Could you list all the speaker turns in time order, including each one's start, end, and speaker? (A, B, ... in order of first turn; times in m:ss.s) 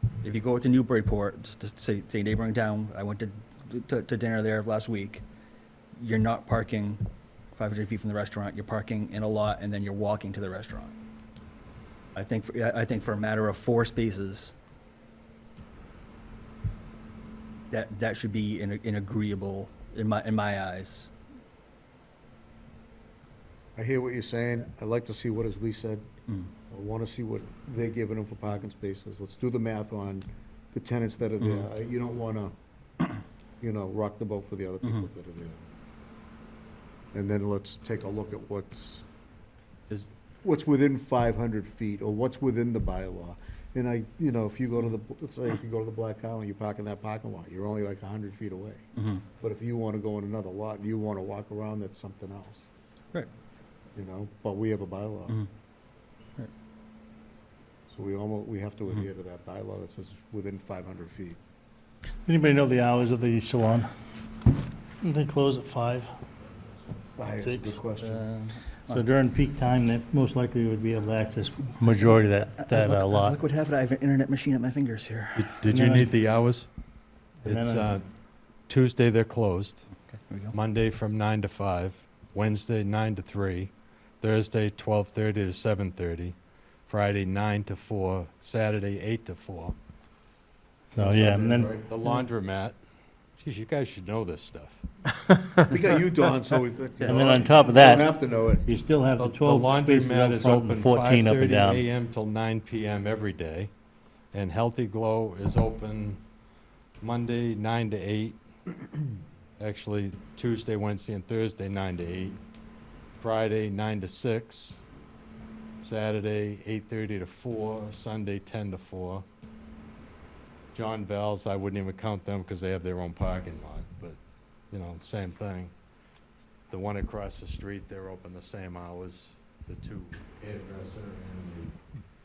0:00.2-0:05.2 A
0:06.0-0:07.0 A
0:07.5-0:10.9 A
0:12.1-0:14.5 A
0:17.7-0:21.1 A
0:23.8-0:26.0 B
0:26.7-0:32.5 B
0:33.6-0:35.6 B
0:37.1-0:39.0 B
0:40.4-0:48.8 B
0:49.4-0:52.6 B
0:53.9-0:55.4 B
0:57.9-1:01.4 B
1:02.2-1:03.9 C
1:05.0-1:06.1 C
1:07.2-1:08.2 B
1:07.3-1:07.8 C
1:08.0-1:09.0 A
1:08.9-1:13.4 C
1:11.9-1:15.5 A
1:15.4-1:16.7 D
1:15.6-1:16.1 C
1:17.4-1:17.9 C
1:17.4-1:18.1 D
1:18.7-1:19.9 D
1:20.1-1:20.5 A
1:20.5-1:26.4 D
1:26.9-1:29.8 D
1:30.9-1:31.7 C
1:31.0-1:31.8 B
1:31.8-1:32.8 D
1:33.4-1:34.8 D
1:35.7-1:38.7 B
1:37.0-1:41.8 C
1:39.2-1:43.7 D
1:44.3-1:46.2 D
1:47.0-1:48.4 D
1:49.6-1:52.4 D
1:53.2-1:54.8 D
1:55.8-1:59.2 D
2:00.7-2:04.2 D
2:04.7-2:05.7 D
2:06.7-2:11.7 D